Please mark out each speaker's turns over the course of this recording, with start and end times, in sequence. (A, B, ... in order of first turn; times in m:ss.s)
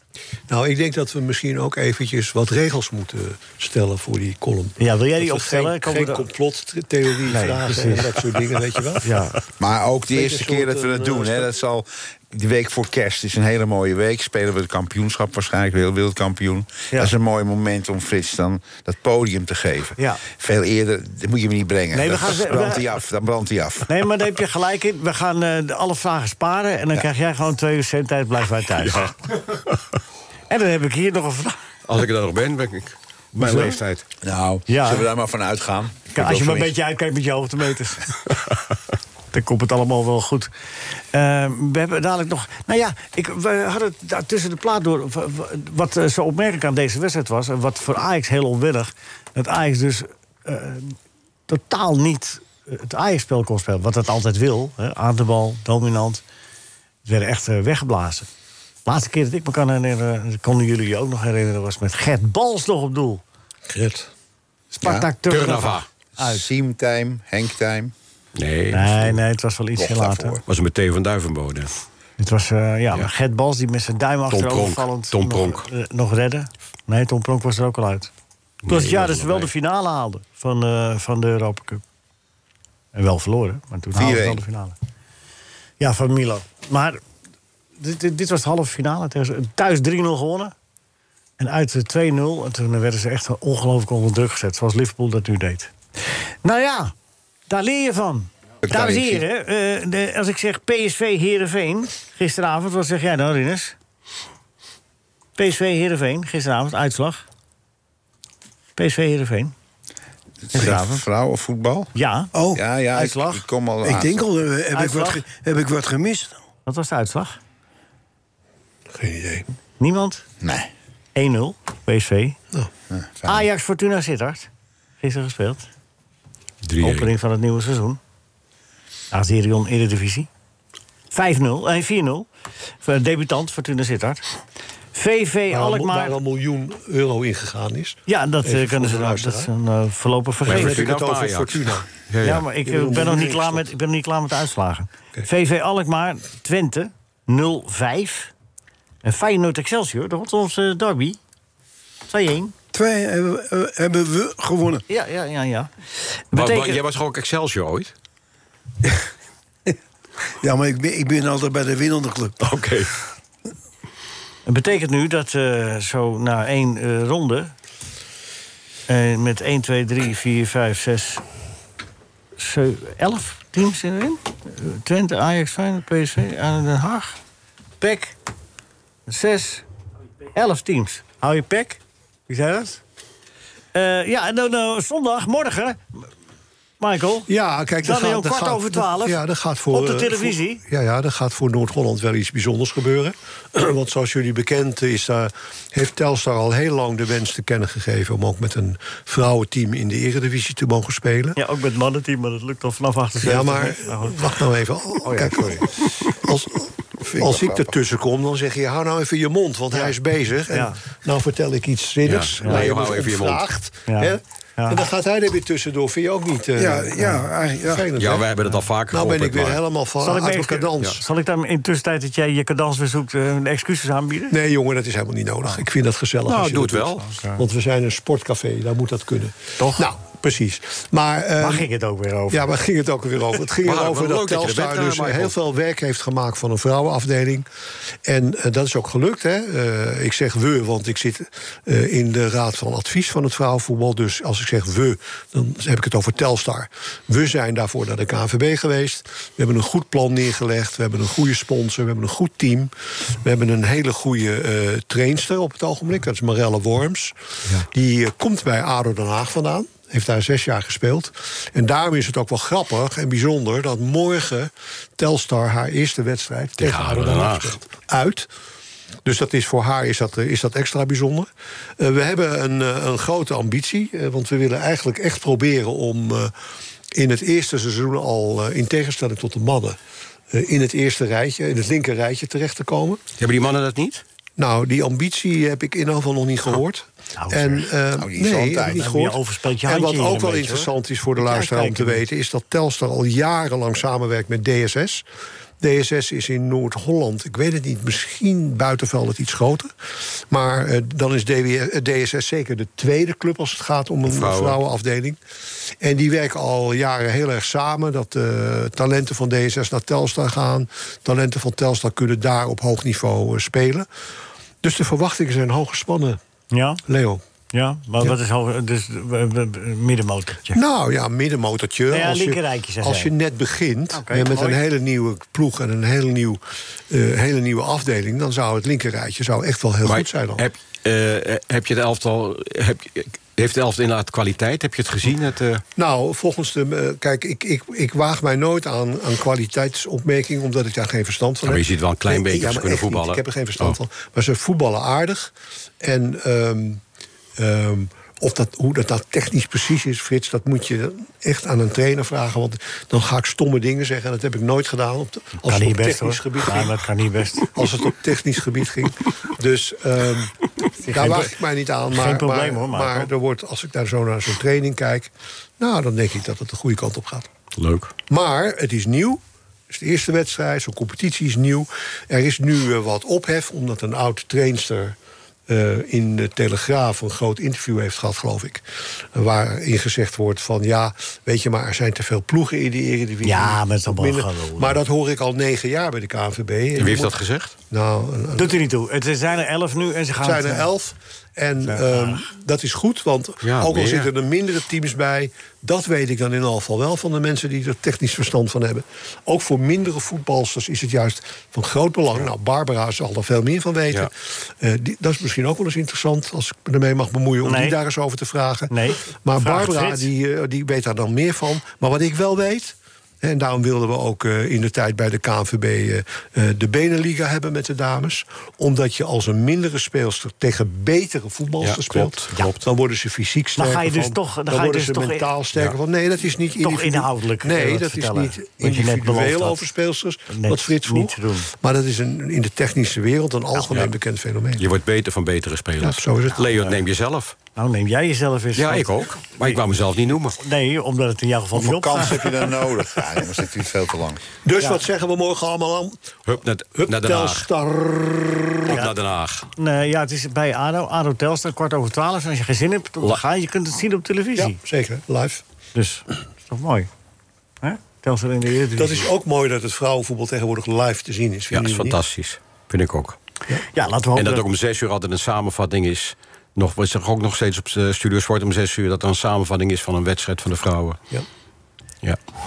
0:00.5-0:09.1 A
0:04.8-0:06.2 B
0:07.3-0:08.1 B
0:09.0-0:09.4 B
0:09.6-0:24.1 C
0:10.1-0:11.5 A
0:20.0-0:20.2 B
0:21.9-0:22.9 B
0:23.9-0:29.1 B
0:28.8-0:29.8 D
0:30.5-0:31.6 B
0:31.8-0:34.0 D
0:33.4-0:33.8 B
0:34.2-0:36.7 C
0:34.7-0:35.1 B
0:36.1-0:38.0 B
0:39.3-0:40.5 B
0:41.1-0:51.0 B
0:51.5-0:56.2 B
0:57.0-0:58.3 B
0:58.8-1:03.2 B
1:03.7-1:04.1 A
1:04.7-1:06.4 B
1:04.8-1:05.1 C
1:05.3-1:05.8 D
1:06.2-1:07.9 C
1:08.3-1:09.2 D
1:08.7-1:10.4 B
1:09.8-1:10.4 C
1:10.4-1:11.7 D
1:12.2-1:18.1 B
1:14.3-1:15.7 D
1:18.6-1:19.5 D
1:18.7-1:21.8 B
1:22.9-1:24.7 B
1:23.9-1:24.4 C
1:25.8-1:27.0 B
1:27.8-1:30.5 B
1:31.4-1:35.7 B
1:36.4-1:36.9 B
1:37.5-1:43.8 B
1:38.6-1:39.2 C
1:45.4-1:47.2 B
1:48.8-1:49.5 B
1:50.4-1:51.9 C
1:50.5-1:51.0 B
1:51.9-1:52.3 B
1:52.3-1:52.6 E
1:52.5-1:54.3 C
1:52.9-1:53.4 B
1:53.8-1:56.4 E
1:54.7-1:55.2 B
1:56.6-1:57.4 B
1:58.9-1:59.4 A
1:59.8-2:00.2 B
2:00.4-2:00.7 C
2:01.1-2:02.4 B
2:02.9-2:03.5 C
2:03.2-2:04.5 B
2:05.0-2:05.7 B
2:06.6-2:07.1 D
2:06.8-2:08.0 B
2:09.1-2:10.3 B
2:11.1-2:12.3 B
2:12.8-2:14.2 B
2:14.9-2:16.2 B
2:15.5-2:19.5 A
2:18.1-2:20.9 B
2:20.4-2:21.9 A
2:20.4-2:22.4 D
2:22.2-2:28.3 B
2:22.6-2:23.7 A
2:29.0-2:31.2 B
2:32.1-2:32.5 B
2:32.7-2:34.8 E
2:34.9-2:35.7 B
2:36.3-2:36.8 B
2:36.3-2:37.9 D
2:40.4-2:42.4 E
2:42.4-2:42.9 D
2:44.4-2:47.5 B
2:48.9-2:51.2 B
2:52.4-2:57.2 B
2:57.8-2:58.1 B
2:59.1-2:59.6 B
3:00.4-3:02.8 B
3:03.7-3:06.1 B
3:06.8-3:07.3 B
3:07.3-3:21.4 A
3:07.8-3:10.6 B
3:21.4-3:24.3 B
3:23.2-3:38.3 A
3:25.0-3:25.7 B
3:27.1-3:27.7 C
3:30.5-3:30.8 B
3:32.0-3:33.5 D
3:33.9-3:34.8 B
3:36.6-3:37.9 E
3:38.0-3:39.6 D
3:38.9-3:41.0 A
3:40.0-3:44.4 B
3:44.3-3:51.7 A
3:46.3-3:47.0 D
3:47.0-3:47.4 B
3:49.6-3:49.8 B
3:51.4-3:52.5 B
3:52.3-3:57.5 A
3:53.6-3:55.3 D
3:58.0-4:28.3 A
4:26.6-4:27.6 D
4:29.0-4:31.3 A
4:31.8-4:36.3 A
4:36.9-4:39.8 A
4:40.3-4:43.0 A
4:43.2-4:44.0 D
4:44.4-4:55.0 A
4:47.2-4:47.7 B
4:48.0-4:48.9 C
4:48.7-4:52.0 B
4:55.6-4:59.7 A
5:00.3-5:05.2 A
5:04.0-5:04.6 D
5:05.8-5:13.9 A
5:14.6-5:16.2 A
5:16.5-5:16.8 B
5:16.9-5:17.2 A
5:17.5-5:20.6 B
5:20.5-5:30.4 A
5:21.9-5:23.1 B
5:23.9-5:24.6 B
5:29.8-5:35.6 D
5:35.8-5:46.8 A
5:41.4-5:43.8 D
5:47.4-5:56.8 A
5:55.4-5:57.5 B
5:57.5-6:00.3 A
6:00.8-6:07.3 A
6:00.8-6:01.3 B
6:01.9-6:03.1 B
6:07.6-6:07.9 D
6:08.1-6:09.2 A
6:09.7-6:15.0 A
6:15.5-6:27.1 A
6:23.2-6:24.8 B
6:26.7-6:27.5 D
6:27.7-6:28.6 A
6:28.4-6:30.7 B
6:30.2-7:14.6 A
6:31.6-6:32.2 B
6:33.4-6:34.1 D
6:47.4-6:47.8 B
6:48.7-6:50.1 B
7:01.6-7:02.6 D
7:03.6-7:05.3 B
7:06.6-7:09.7 B
7:10.3-7:11.5 B
7:14.6-7:17.3 D
7:15.8-7:16.7 A
7:17.6-7:19.6 B
7:18.6-7:20.4 D
7:20.4-7:22.5 B
7:21.5-7:24.2 C
7:24.4-7:26.0 A
7:26.2-7:27.5 D
7:26.7-7:28.8 A
7:28.7-7:29.5 D
7:29.6-7:34.6 B
7:34.4-7:35.4 A
7:35.7-7:36.9 B
7:37.6-7:39.1 B
7:38.8-7:42.0 A
7:41.5-7:43.2 D
7:43.7-7:44.4 B
7:44.2-7:51.0 D